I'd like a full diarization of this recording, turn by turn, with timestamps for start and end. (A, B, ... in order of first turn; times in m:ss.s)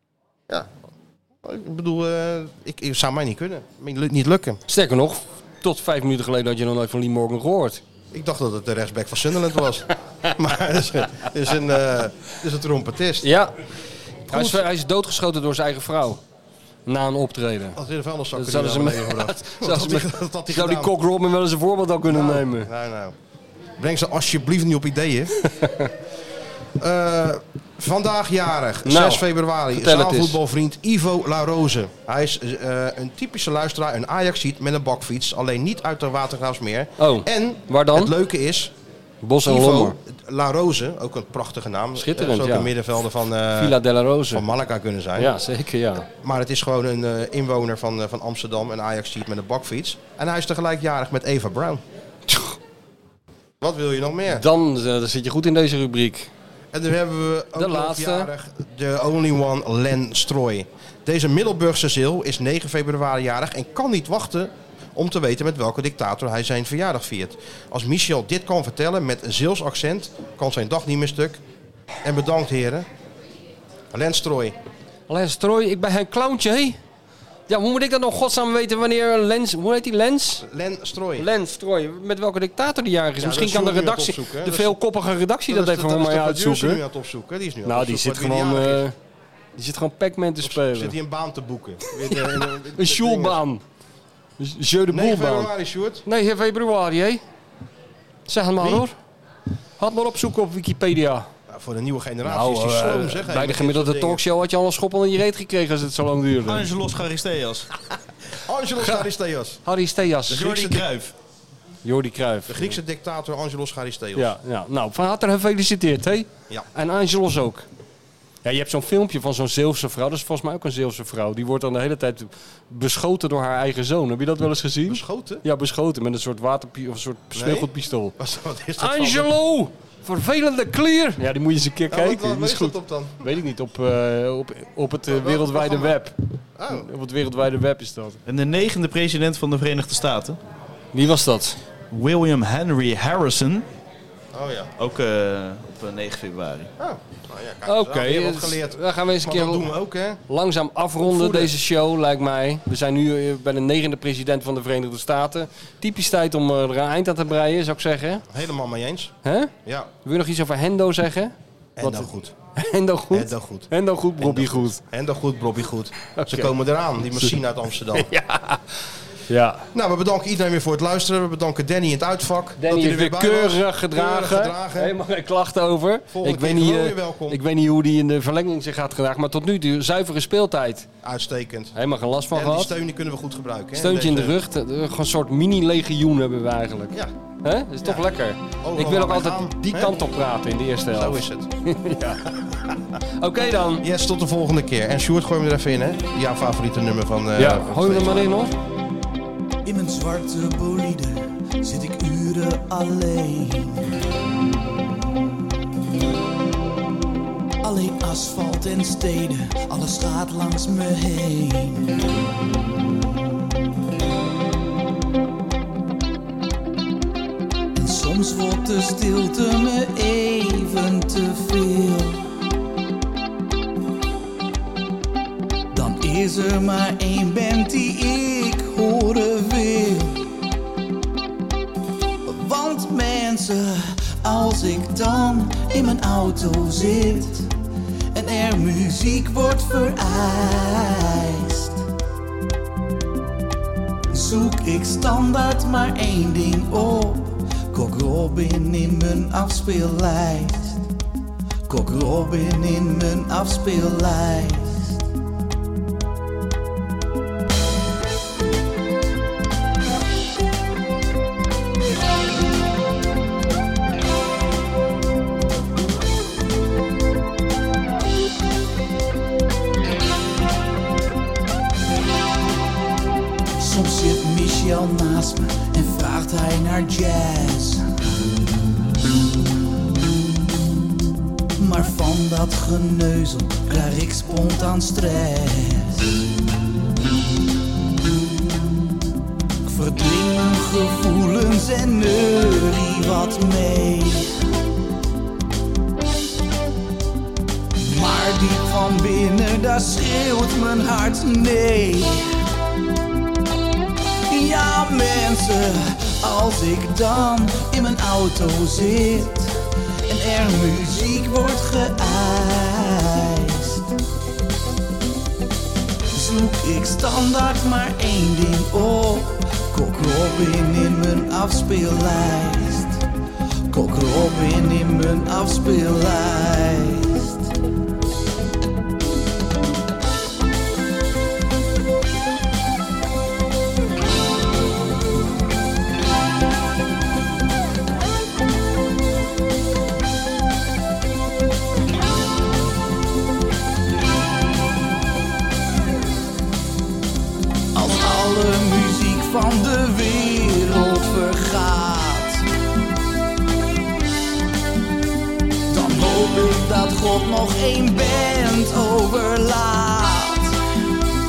0:01.4-0:04.6 A
0:04.7-0:07.8 B
0:08.1-0:13.3 A
0:13.2-0:13.5 B
0:14.3-0:14.7 A
0:14.3-0:16.2 B
0:16.8-0:17.8 B
0:17.7-0:20.9 A
0:18.3-0:22.7 B
0:22.1-0:23.1 A
0:23.8-0:25.3 A
0:25.4-0:25.9 B
0:26.8-0:38.7 A
0:28.8-0:30.4 B
0:37.0-0:38.1 B
0:39.2-0:40.0 B
0:39.4-0:43.8 A
0:42.0-0:42.7 B
0:43.6-0:44.4 B
0:44.3-0:45.3 A
0:45.2-0:46.0 B
0:46.2-0:51.8 A
0:52.3-0:52.6 B
0:53.6-0:54.4 A
0:54.3-0:56.3 B
0:56.7-1:11.4 A
0:57.6-0:58.3 B
1:12.0-1:12.9 A
1:13.9-1:14.6 A
1:15.1-1:16.8 B
1:17.5-1:20.4 B
1:20.4-1:21.3 A
1:21.2-1:26.8 B
1:23.2-1:24.8 A
1:25.5-1:28.9 A
1:27.6-1:28.9 B
1:29.6-1:31.0 B
1:30.4-1:33.4 A
1:31.9-1:33.6 B
1:34.4-1:35.5 B
1:34.9-1:36.0 A
1:36.0-1:37.2 B
1:38.3-1:38.9 B
1:38.6-1:38.8 A
1:39.8-1:41.3 B
1:41.5-1:44.2 A
1:42.2-1:46.7 B
1:46.4-1:47.7 C
1:48.4-1:49.6 A
1:48.8-1:49.0 B
1:49.6-1:50.6 B
1:50.3-1:50.9 A
1:50.4-1:51.1 C
1:51.8-1:52.8 B
1:52.5-1:54.3 A
1:54.2-1:57.6 B
1:58.4-2:08.1 B
2:04.8-2:05.4 A
2:07.3-2:09.3 A
2:08.8-2:16.2 B
2:11.9-2:13.2 A
2:15.1-2:16.0 A
2:16.6-2:16.9 A
2:16.7-2:18.2 B
2:18.2-2:20.4 C
2:20.9-2:21.6 B
2:21.9-2:23.6 C
2:24.3-2:24.7 A
2:24.8-2:26.7 C
2:26.8-2:30.2 A
2:27.6-2:29.7 B
2:30.3-2:38.2 B
2:31.0-2:31.5 A
2:38.3-2:39.1 A
2:39.2-2:39.5 B
2:39.6-2:39.9 A
2:40.0-2:44.8 B
2:41.8-2:42.3 A
2:43.1-2:48.1 A
2:46.2-2:46.5 B
2:47.9-2:48.6 B
2:49.3-2:49.7 B
2:49.7-2:54.9 A
2:52.6-3:00.9 B
2:56.1-2:57.4 A
3:01.0-3:01.8 A
3:01.7-3:02.7 B
3:02.3-3:04.4 A
3:03.7-3:12.3 B
3:07.8-3:08.1 A
3:08.6-3:09.9 A
3:10.9-3:11.5 A
3:13.2-3:13.8 B
3:13.8-3:18.3 A
3:17.4-3:18.5 B
3:19.6-3:23.9 D
3:27.6-3:32.0 D
3:37.7-3:42.3 D
3:45.7-3:50.3 D
3:52.2-3:57.5 D
3:58.1-4:01.8 D
4:04.1-4:10.8 D
4:11.7-4:15.0 D
4:33.6-4:37.8 D
4:40.5-4:40.8 D
4:41.6-4:46.2 D
4:48.1-4:48.9 D
4:49.6-4:54.3 D
4:57.8-5:02.2 D
5:04.3-5:09.5 D
5:10.1-5:13.9 D
5:16.1-5:23.0 D
5:23.7-5:27.5 D
5:47.7-5:52.4 D
5:55.7-6:00.6 D